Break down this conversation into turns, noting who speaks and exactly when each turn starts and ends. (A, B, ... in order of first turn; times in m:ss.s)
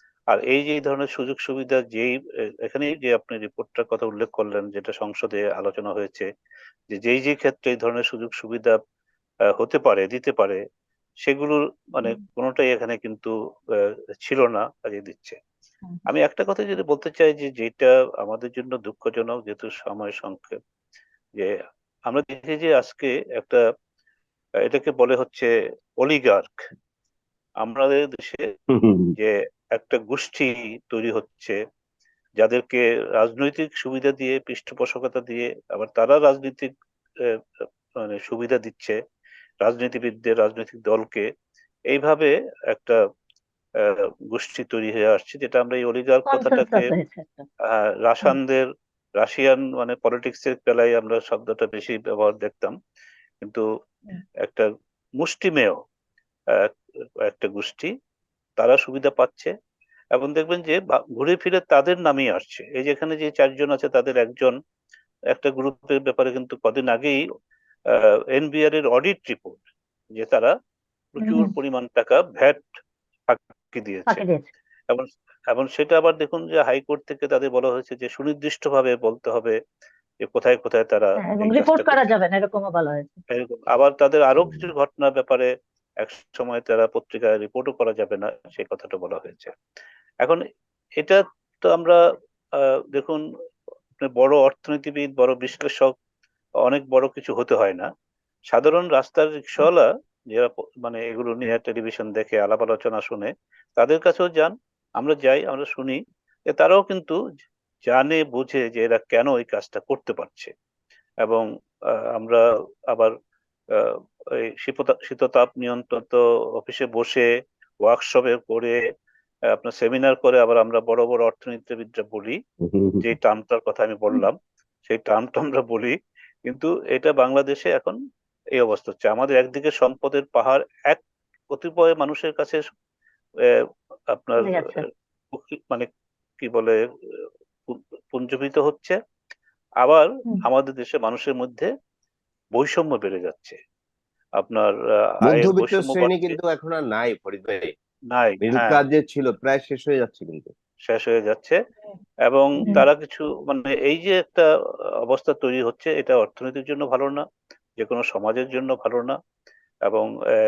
0:00.3-0:02.1 A
0:02.6-0:06.3 A
0:06.9-0:08.7 A
0:09.6-0:10.6 A
0:11.2-0:13.3 A
0:14.2-0:15.4 A
0:16.1-0:20.6 A
0:22.1-0:23.6 A
0:24.6-0:25.5 A
0:26.0-0:26.5 A
0:27.6-0:28.4 A
0:28.7-0:29.2 B
0:29.2-0:31.6 A
0:32.4-0:36.7 A
0:38.0-0:39.0 A
0:39.6-0:41.2 A
0:41.9-0:43.0 A
0:43.8-0:46.8 A
0:46.3-0:47.4 C
0:47.7-0:48.6 A
0:49.2-0:52.7 A
0:55.2-0:55.8 A
0:57.3-0:57.9 A
0:58.6-0:59.5 A
1:00.1-1:04.5 A
1:05.3-1:07.2 A
1:07.9-1:09.6 A
1:10.2-1:10.5 A
1:11.1-1:12.6 A
1:11.2-1:11.5 C
1:13.3-1:14.2 A
1:14.1-1:14.5 C
1:14.9-1:19.6 A
1:20.2-1:22.0 A
1:21.2-1:23.2 C
1:23.3-1:25.5 A
1:24.4-1:24.7 B
1:26.0-1:29.5 A
1:31.0-1:32.0 A
1:32.9-1:33.2 A
1:34.0-1:35.9 A
1:36.6-1:37.9 A
1:38.5-1:46.0 A
1:46.5-1:47.2 A
1:47.9-1:50.5 A
1:52.2-1:53.1 A
1:54.6-1:57.2 A
1:57.8-1:58.8 A
1:59.6-2:02.4 A
2:02.6-2:03.1 B
2:03.0-2:05.9 A
2:06.5-2:08.0 A
2:08.6-2:12.6 A
2:14.1-2:14.5 A
2:14.4-2:14.8 C
2:15.3-2:15.9 A
2:16.4-2:16.8 A
2:17.7-2:19.0 A
2:19.8-2:21.7 A
2:22.5-2:23.6 A
2:24.4-2:24.7 A
2:25.2-2:27.7 B
2:25.3-2:26.4 A
2:28.1-2:28.8 A
2:28.4-2:30.5 B
2:30.8-2:31.6 A
2:32.3-2:34.4 A
2:35.0-2:37.2 A
2:37.8-2:39.1 A